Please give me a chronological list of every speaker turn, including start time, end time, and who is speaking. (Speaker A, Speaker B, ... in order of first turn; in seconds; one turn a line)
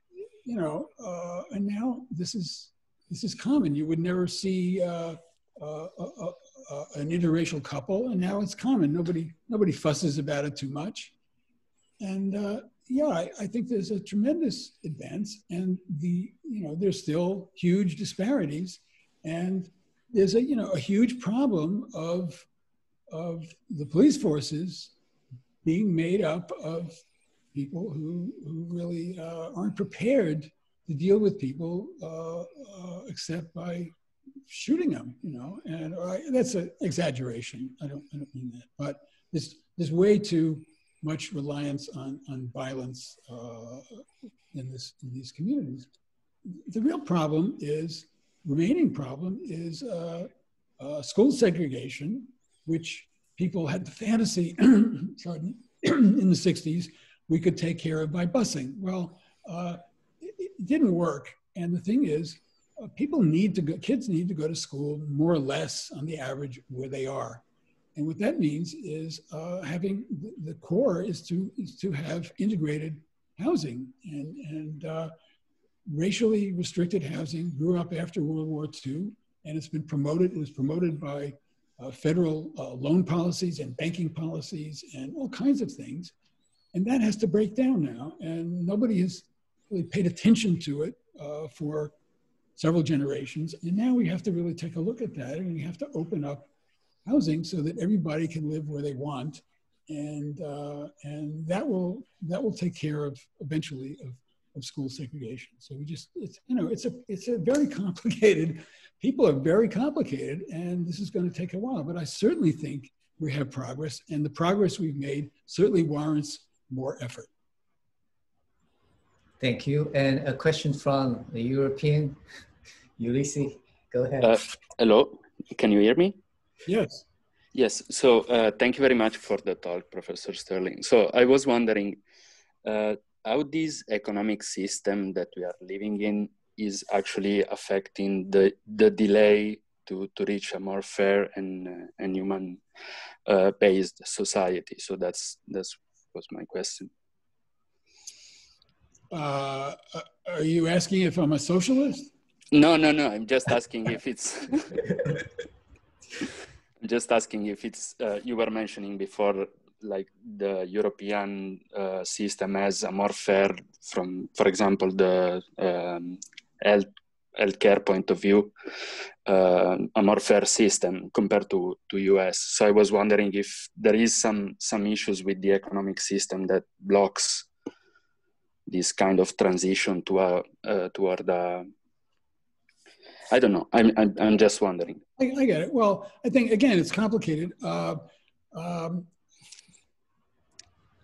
Speaker A: 0.5-11.1
Speaker A: 12.0-22.5
Speaker A: 23.1-24.9
Speaker A: 25.6-27.0
Speaker A: 27.5-33.9
Speaker A: 34.5-45.9
Speaker A: 46.5-67.4
Speaker A: 68.0-75.1
Speaker A: 75.9-86.1
Speaker A: 86.7-92.0
Speaker A: 92.6-96.5
Speaker A: 97.1-117.3
Speaker B: 119.4-122.2
Speaker B: 123.0-124.3
Speaker C: 124.2-126.2
Speaker A: 126.7-127.0
Speaker C: 127.5-132.0
Speaker C: 132.7-142.6
Speaker C: 143.3-146.9
Speaker A: 149.1-152.1
Speaker C: 152.5-154.8
Speaker C: 156.8-168.5
Speaker C: 169.3-177.5
Speaker C: 178.7-181.7
Speaker C: 183.3-185.0
Speaker A: 185.2-189.1